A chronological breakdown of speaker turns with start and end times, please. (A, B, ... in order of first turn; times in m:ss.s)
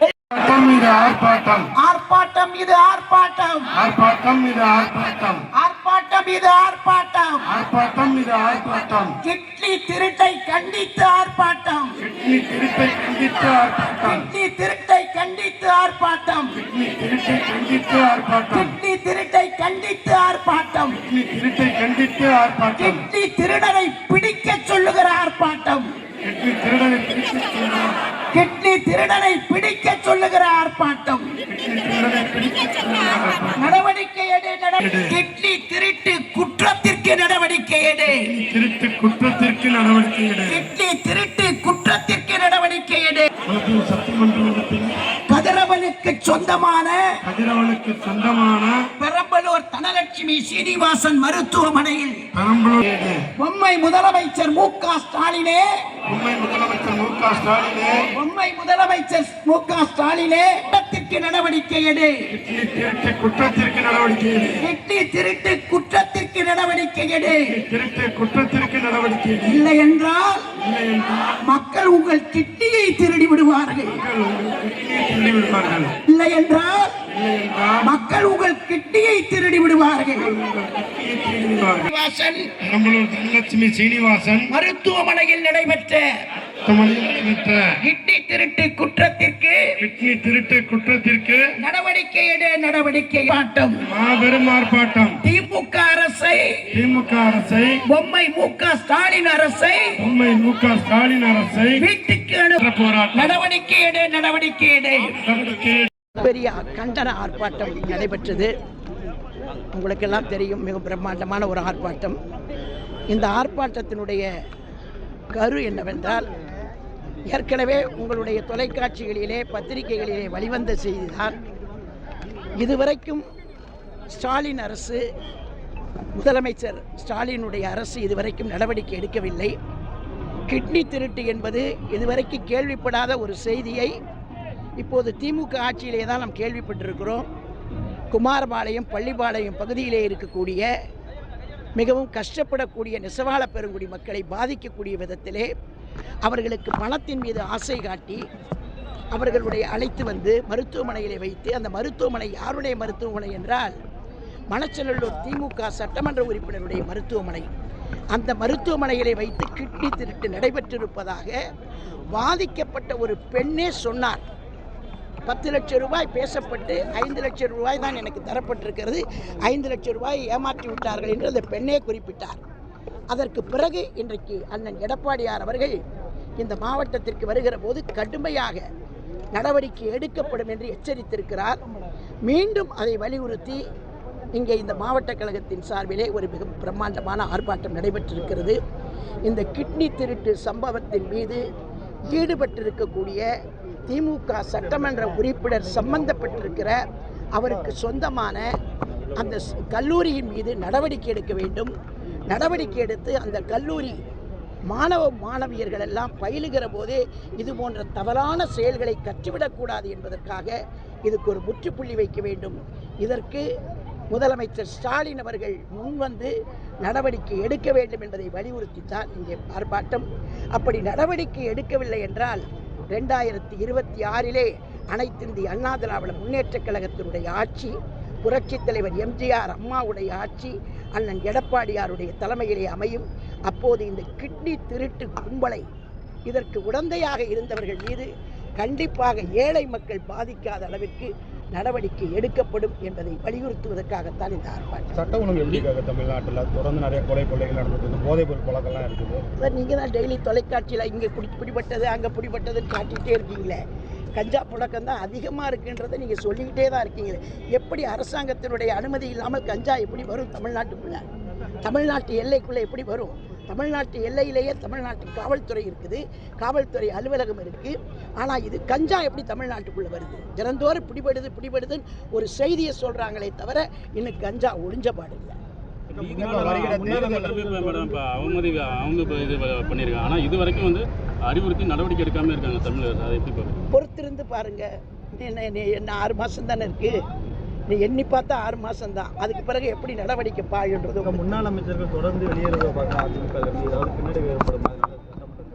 0:00.3-0:01.6 A
0:01.8-0:03.7 B
0:03.8-0:05.4 A
0:05.5-0:07.5 B
0:07.7-0:09.1 A
0:09.2-0:12.0 B
0:12.2-0:14.2 A
0:14.0-0:16.6 B
0:16.6-0:18.7 A
0:18.5-0:21.0 B
0:21.2-0:23.0 A
0:22.8-0:25.9 B
0:26.2-0:27.9 A
0:28.3-0:31.3 B
0:31.5-0:33.6 A
0:33.6-0:38.3 B
0:38.1-0:40.6 A
0:40.4-0:43.3 B
0:43.5-0:44.9 A
0:45.3-0:47.2 B
0:47.4-0:48.7 A
0:49.0-0:52.3 B
0:52.6-0:53.2 A
0:53.4-0:55.9 B
0:56.1-0:58.0 A
0:58.1-1:02.3 B
1:02.4-1:04.6 A
1:04.6-1:07.6 B
1:07.6-1:09.6 A
1:09.4-1:10.5 B
1:10.7-1:11.1 A
1:11.4-1:14.0 B
1:14.2-1:15.9 A
1:16.1-1:17.0 B
1:17.2-1:17.7 A
1:17.8-1:20.3 B
1:20.4-1:21.8 A
1:21.8-1:22.5 B
1:22.6-1:24.4 A
1:24.5-1:26.1 B
1:26.6-1:27.5 A
1:27.8-1:29.8 B
1:29.8-1:31.4 A
1:31.6-1:33.8 B
1:33.9-1:35.2 A
1:35.2-1:36.7 B
1:36.7-1:37.8 A
1:37.8-1:40.0 B
1:40.0-1:41.8 A
1:41.8-1:45.2 B
1:42.6-1:43.3 A
1:45.2-1:45.9 A
1:46.2-1:48.5 B
1:49.7-1:52.2 B
1:53.1-1:54.3 B
1:55.3-1:56.2 B
1:57.2-2:01.3 B
2:02.6-2:03.2 B
2:04.1-2:05.0 B
2:06.1-2:09.5 B
2:10.5-2:13.9 B
2:14.8-2:17.2 B
2:18.1-2:20.6 B
2:21.8-2:25.5 B
2:26.2-2:28.2 B
2:29.1-2:33.7 B
2:34.5-2:37.5 B
2:38.1-2:41.4 B
2:42.1-2:44.2 B
2:45.2-2:52.4 B
2:53.1-2:55.7 B
2:56.4-2:58.6 B
2:59.3-3:01.6 B
3:02.2-3:03.7 B
3:04.3-3:08.6 B
3:09.2-3:11.4 B
3:12.0-3:13.2 B
3:13.9-3:16.8 B
3:17.3-3:18.4 B
3:19.1-3:21.7 B
3:22.3-3:24.0 B
3:24.7-3:30.5 B
3:31.0-3:33.4 B
3:34.1-3:36.3 B
3:36.8-3:55.6 B
3:56.3-3:58.1 B
3:58.6-4:05.0 B
4:04.9-4:09.2 C
4:05.4-4:05.6 D
4:09.4-4:13.6 B
4:14.1-4:21.0 B
4:21.6-4:35.3 B
4:35.9-4:43.6 D
4:35.9-4:37.9 C
4:43.7-4:46.9 B
4:47.7-4:51.2 B
4:51.1-4:55.4 E